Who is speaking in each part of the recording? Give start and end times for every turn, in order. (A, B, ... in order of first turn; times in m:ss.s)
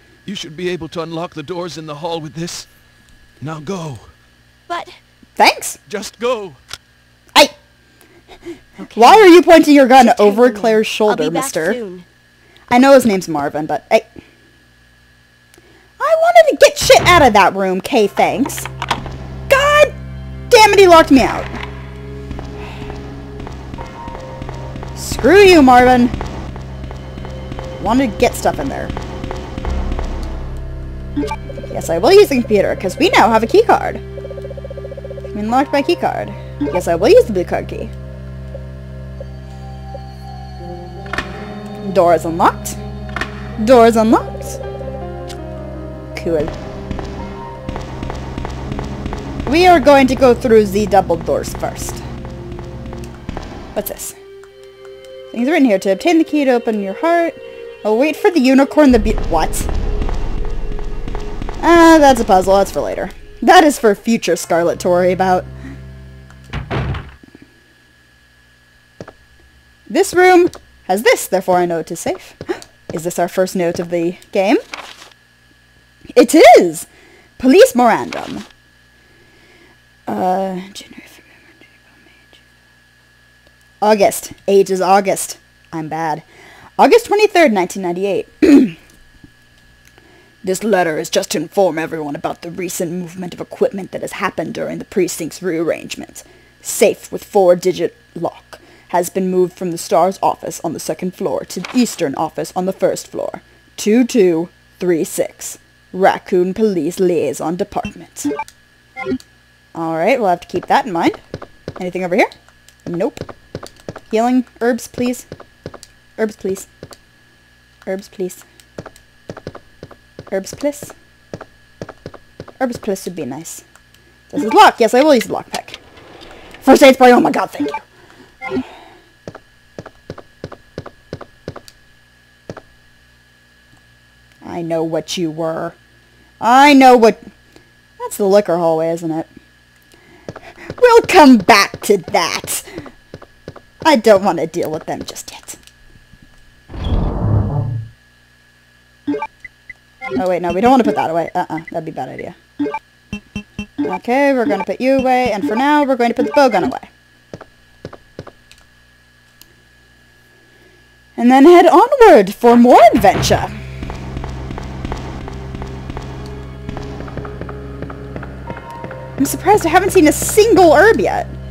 0:00.2-0:02.7 A
0:03.4-0:04.1 A
0:05.4-0:05.8 B
0:05.9-0:06.6 A
0:08.8-0:09.3 C
0:08.9-0:11.8 B
0:10.0-0:12.0 C
0:12.7-0:14.0 B
0:16.0-0:18.7 B
0:19.5-0:19.9 B
0:20.5-0:21.5 B
0:24.9-0:26.1 B
0:27.8-0:28.9 B
0:31.7-0:34.0 B
0:35.3-0:37.9 B
0:41.8-0:42.8 B
0:43.6-0:44.6 B
0:46.1-0:46.5 B
0:49.4-0:52.0 B
0:53.7-0:54.2 B
0:55.3-0:59.7 B
1:01.6-1:05.5 B
1:09.9-1:14.6 B
1:16.1-1:16.9 B
1:17.4-1:18.4 B
1:20.1-1:21.7 B
1:23.8-1:26.2 B
1:26.8-1:28.8 B
1:30.4-1:48.3 B
1:49.7-1:51.2 B
1:51.8-1:52.3 B
1:52.8-1:53.2 B
1:54.1-1:55.3 B
1:56.2-1:56.7 B
1:57.8-1:58.4 B
2:00.3-2:00.9 B
2:02.6-2:03.6 B
2:04.3-2:05.8 B
2:06.6-2:07.8 B
2:14.4-2:15.8 B
2:16.4-2:17.2 B
2:18.0-2:19.3 B
2:20.8-2:22.6 B
2:23.8-2:25.6 B
2:30.2-2:32.4 B
2:33.8-2:36.9 B
2:41.2-2:43.5 B
2:49.2-2:51.3 B